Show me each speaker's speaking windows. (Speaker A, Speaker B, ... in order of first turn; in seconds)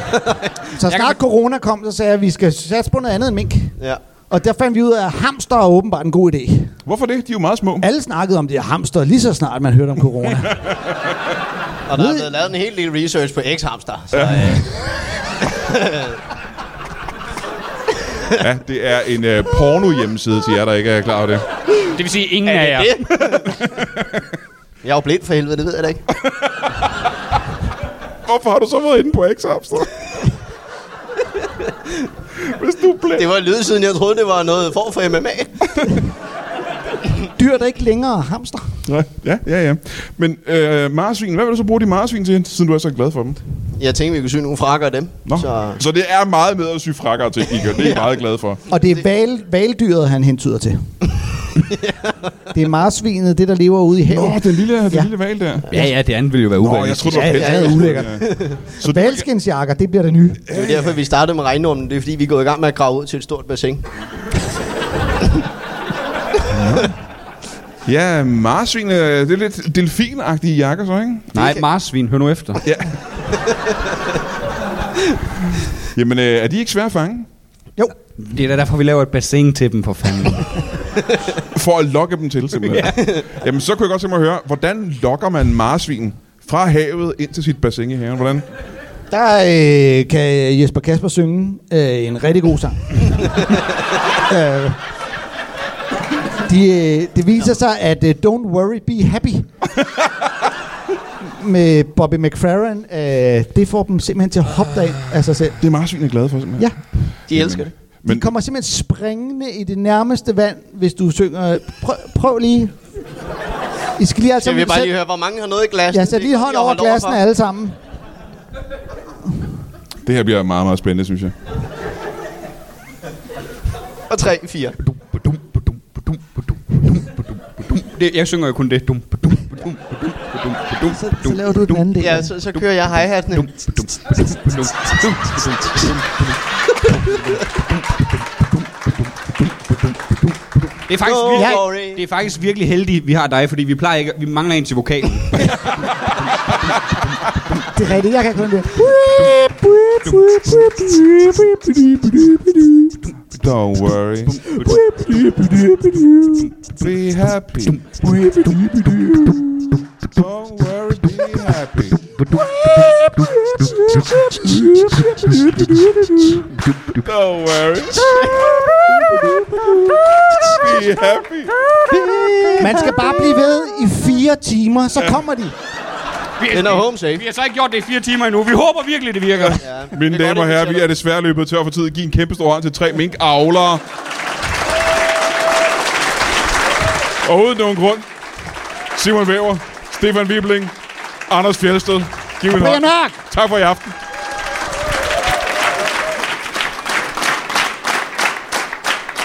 Speaker A: 0.1-0.5, 11.9-14.7, 15.5-16.2, 22.4-23.7, 24.8-26.0, 33.1-35.7, 43.8-45.8, 47.7-48.2, 51.6-52.4, 57.3-58.6, 60.5-63.9, 71.3-71.6, 83.0-83.2, 107.3-107.7, 114.4-117.2, 124.1-124.8, 132.0-133.8, 141.0-142.0, 168.0-168.4, 170.3-170.6, 171.9-173.1, 176.5-177.2, 179.6-180.9
Speaker B: 0.8-3.8, 4.3-6.7, 7.8-10.6, 11.9-12.3, 37.3-38.8, 48.7-50.8, 52.5-55.1, 57.1-60.4, 89.1-93.4, 94.2-94.8, 96.4-99.5, 101.2-105.6, 108.0-112.8, 114.0-114.9, 115.9-117.8, 130.8-132.3, 141.3-141.7, 147.7-152.4, 154.5-156.5, 158.0-159.6, 162.4-166.7, 172.6-175.5, 192.5-193.3
Speaker C: 0.9-1.1, 21.9-23.1, 55.7-57.6, 71.3-72.6, 78.2-80.7, 82.6-83.0, 127.7-131.9, 133.3-136.0, 140.9-145.8, 154.5-154.8, 176.4-179.6
Speaker D: 6.8-7.9, 14.1-14.6, 18.4-21.4, 28.2-29.9, 32.4-33.3, 38.8-43.4, 45.2-48.6, 54.1-55.7, 56.6-59.2, 60.5-60.9, 66.5-67.0, 67.8-71.3, 72.6-73.0, 75.9-77.3, 81.5-88.5, 105.6-106.7, 107.3-108.3, 120.0-121.3, 153.3-154.5, 156.7-157.8, 160.1-162.1, 166.9-169.5, 170.5-171.6, 179.4-183.8, 187.2-188.1, 188.9-190.7, 191.3-193.9